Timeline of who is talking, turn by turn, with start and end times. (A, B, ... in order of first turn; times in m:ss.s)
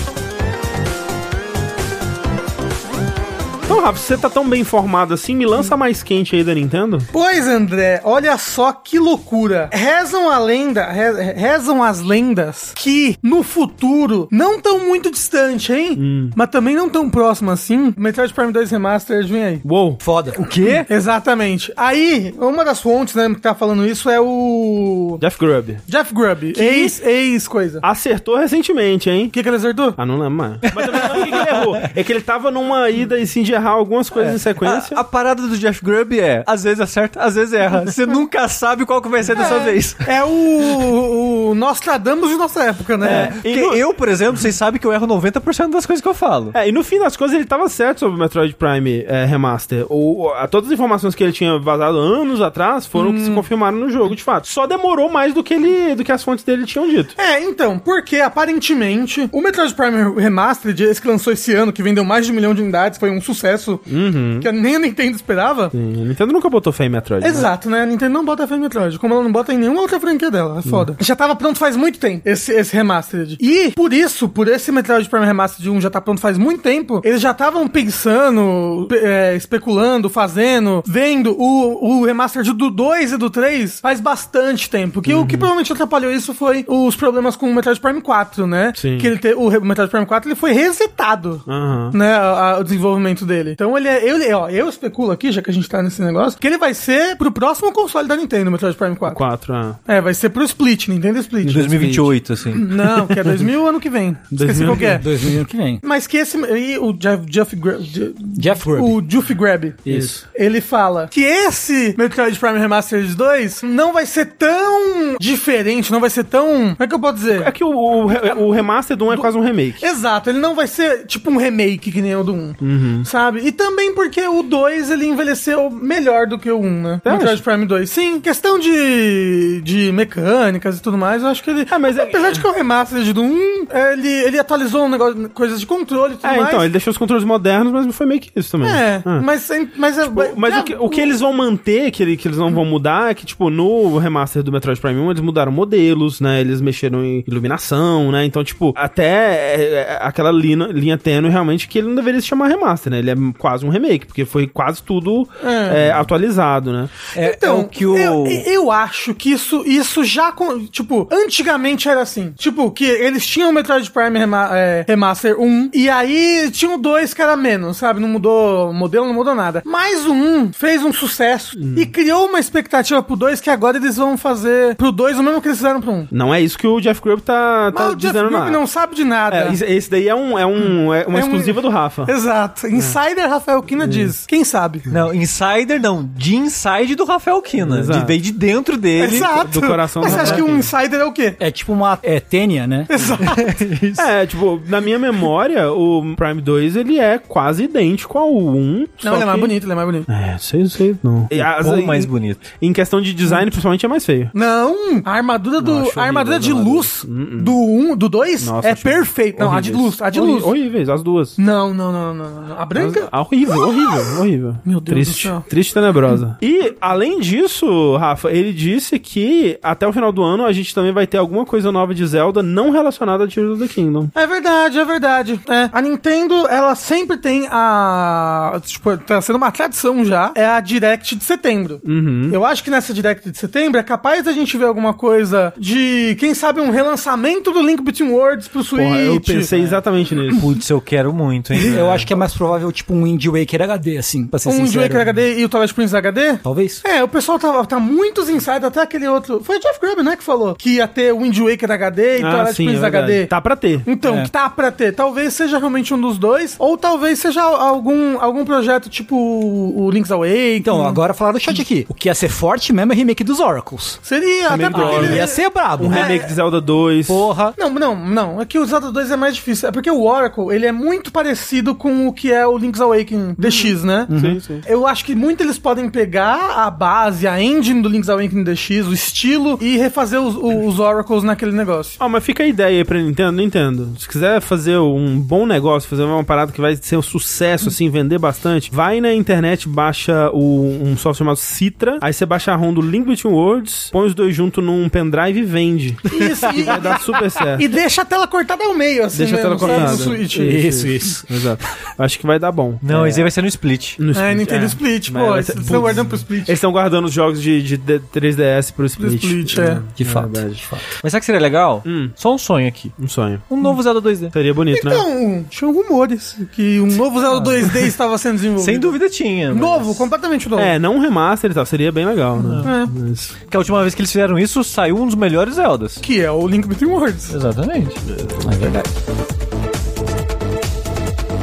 0:03.7-0:07.1 A
0:07.1-0:19.6 B
0:16.0-0:16.4 A
0:19.6-0:20.0 A
0:20.0-0:20.6 C
0:20.3-0:20.9 D
0:20.9-0:25.2 B
0:25.2-0:25.8 A
0:25.9-0:27.8 B
0:26.6-0:26.9 A
0:27.8-0:29.4 A
0:29.3-0:30.0 B
0:30.0-0:35.0 A
0:30.7-0:31.9 D
0:34.2-0:40.7 D
0:39.3-0:43.4 B
0:43.0-0:46.6 D
0:43.0-0:43.8 A
0:46.5-0:57.2 A
0:53.0-0:53.4 B
0:57.2-1:05.7 B
1:03.9-1:04.5 A
1:05.7-1:07.5 A
1:07.2-1:39.2 B
1:25.1-1:25.5 A
1:28.8-1:29.1 A
1:31.5-1:32.0 A
1:39.1-1:39.8 A
1:39.9-1:41.9 B
1:41.4-1:42.1 A
1:41.5-1:43.2 D
1:42.5-1:45.3 B
1:44.3-1:45.0 A
1:44.7-1:45.8 C
1:45.8-1:57.5 B
1:48.4-1:49.0 C
1:49.9-1:50.2 C
1:49.9-1:50.2 A
1:57.4-1:59.8 A
1:58.2-1:58.4 B
1:59.1-2:16.7 B
2:02.6-2:03.1 A
2:07.0-2:07.4 A
2:11.7-2:12.4 A
2:16.2-2:19.3 A
2:18.6-2:21.1 B
2:20.0-2:37.0 A
2:35.4-2:35.8 B
2:37.1-2:56.1 B
2:37.2-2:38.4 C
2:51.6-2:51.9 A
2:56.1-2:58.6 A
2:57.7-2:59.6 B
2:59.3-3:02.1 A
3:00.6-3:04.9 B
3:03.8-3:04.1 A
3:04.9-3:09.4 D
3:07.6-3:08.2 A
3:09.0-3:11.4 B
3:09.2-3:10.7 A
3:11.4-3:12.9 C
3:12.9-3:13.4 B
3:13.2-3:14.1 D
3:14.0-3:19.5 A
3:19.0-3:20.1 B
3:20.1-3:24.3 A
3:21.3-3:22.5 D
3:24.3-3:30.5 B
3:25.6-3:27.6 A
3:28.4-3:31.4 A
3:31.4-3:33.1 B
3:32.8-3:44.1 A
3:34.6-3:35.5 B
3:44.2-3:59.5 B
3:51.8-3:52.4 A
3:58.8-4:00.6 A
4:00.3-4:02.1 D
4:01.6-4:05.1 C
4:04.5-4:13.3 B
4:06.4-4:06.8 C
4:12.2-4:13.9 A
4:13.8-4:21.6 B
4:14.0-4:14.3 C
4:20.6-4:24.0 C
4:24.0-4:26.3 B
4:24.5-4:27.3 A
4:24.7-4:26.2 C
4:27.1-4:27.6 C
4:27.6-4:34.1 B
4:33.4-4:34.6 A
4:34.1-4:34.4 C
4:34.6-4:42.0 B
4:42.0-4:57.7 A
4:56.1-5:00.7 B
4:59.1-5:03.2 A
4:59.6-5:01.3 C
5:02.8-5:04.0 D
5:04.0-5:10.7 A
5:04.1-5:06.6 B
5:09.0-5:09.8 B
5:10.0-5:10.6 C
5:10.8-5:13.0 D
5:11.8-5:12.2 A
5:13.0-5:13.7 A
5:13.5-5:14.3 D
5:14.3-5:15.0 A
5:14.7-5:19.0 B
5:17.3-5:17.9 D
5:18.6-5:20.1 D
5:19.5-5:20.8 B
5:20.6-5:23.3 A
5:22.4-5:22.7 D
5:22.6-5:22.9 B
5:23.5-5:26.0 D
5:26.0-5:27.4 B
5:27.3-5:28.0 D
5:28.0-5:28.8 A
5:28.5-5:28.8 C